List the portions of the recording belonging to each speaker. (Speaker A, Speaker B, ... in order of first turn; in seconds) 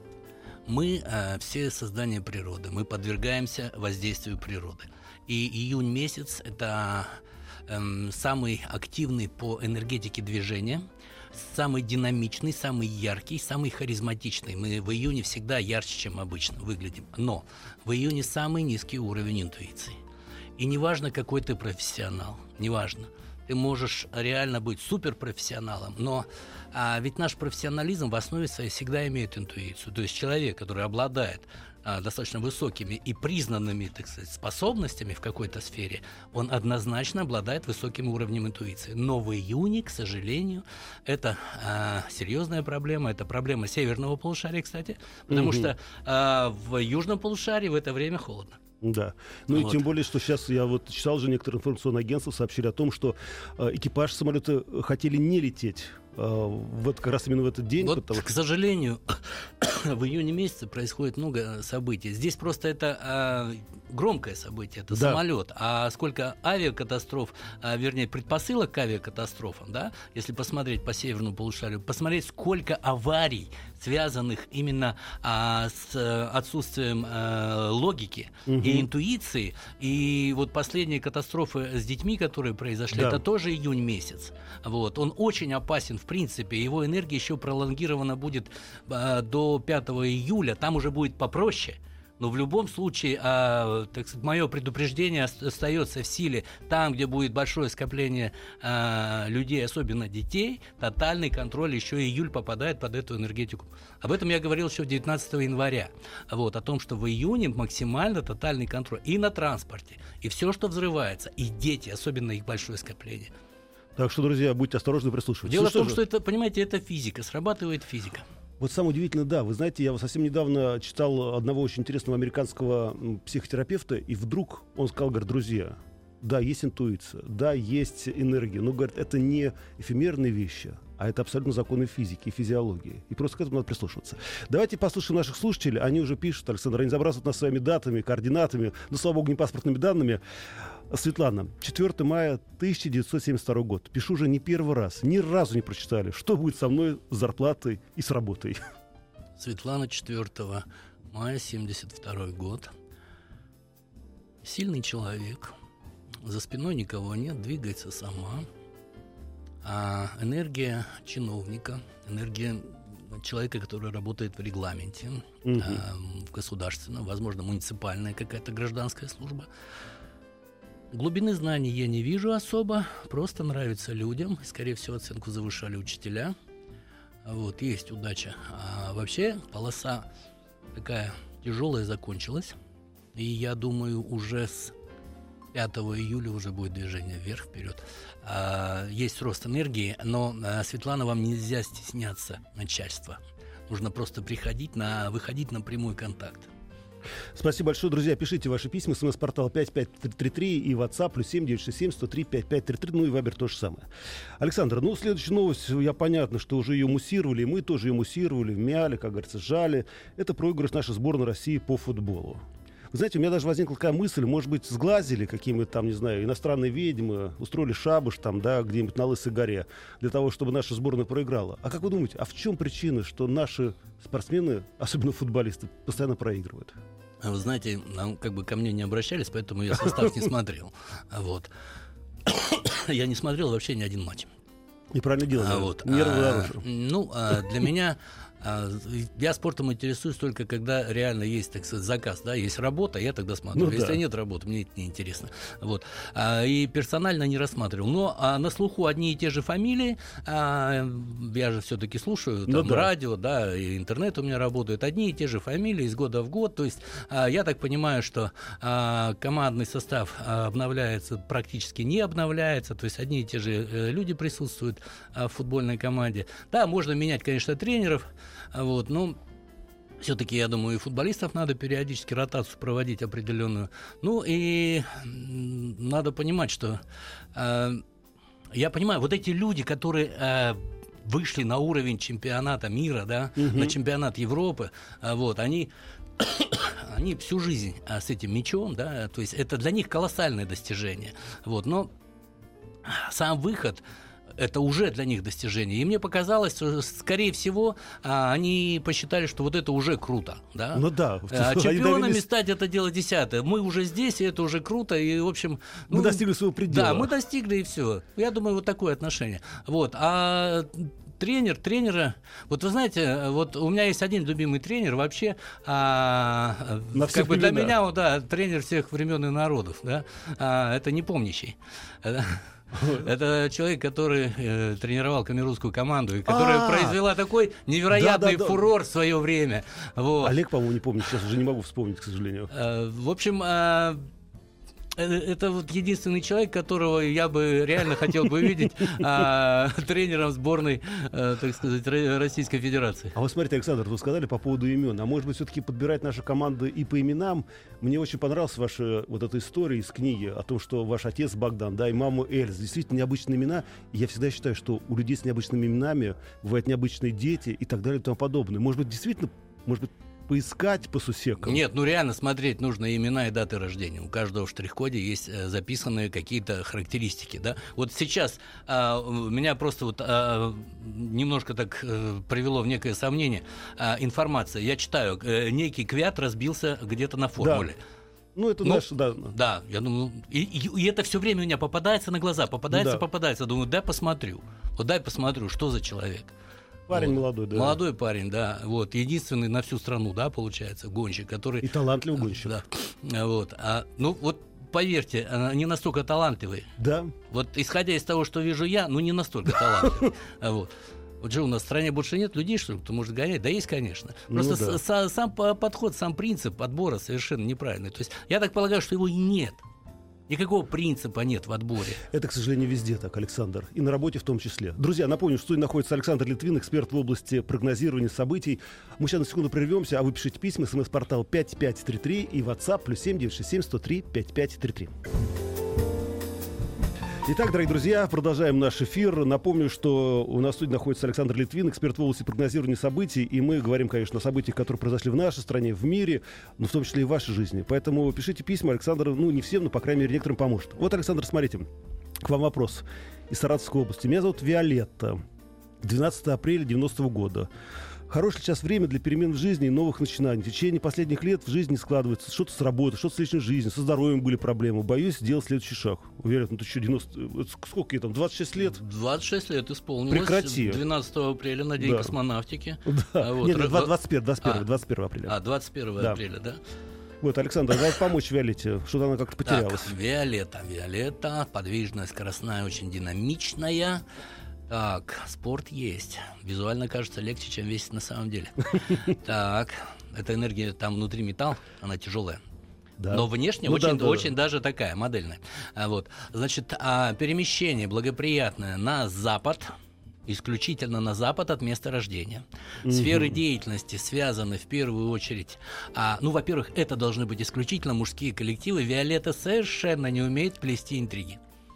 Speaker A: 0.7-19.9, 20.6-48.6, 49.5-49.8, 57.8-113.3, 115.4-118.2, 149.4-152.7, 154.4-155.5, 156.2-158.4, 159.6-169.5, 170.9-176.3, 177.2-180.1, 180.8-182.5, 183.1-184.8, 185.5-196.5, 227.2-231.5, 232.2-234.3, 235.4-269.2, 270.0-276.8, 277.3-277.8, 278.5-291.9, 292.9-293.8, 294.4-330.4, 332.5-334.0, 334.9-343.1, 361.4-377.8, 378.6-386.3, 386.9-396.7, 397.3-409.6, 410.3-412.0, 458.6-464.6, 465.3-466.6, 469.4-474.0, 474.7-482.4, 483.1-489.7, 490.3-501.4
Speaker B: 45.3-45.7, 48.8-58.3, 64.9-65.2, 78.5-78.9, 82.9-83.2, 114.0-116.0, 118.6-140.2, 140.9-148.6, 165.4-165.8, 197.3-203.9, 204.4-226.8, 234.9-236.6, 243.5-244.0, 252.5-252.9, 283.4-283.7, 300.7-302.2, 305.9-307.1, 316.9-317.8, 322.8-323.0, 326.3-327.0, 327.9-328.7, 330.2-332.5, 343.1-361.6, 377.4-377.7, 378.4-379.4, 382.7-383.0, 386.9-387.8, 391.6-392.6, 396.8-397.1, 404.3-404.8, 412.0-424.9, 427.2-441.7, 442.2-445.2, 445.8-447.5, 448.1-458.8, 460.1-460.8, 461.8-462.1, 462.9-465.4, 467.2-469.9, 483.0-484.3, 492.9-493.4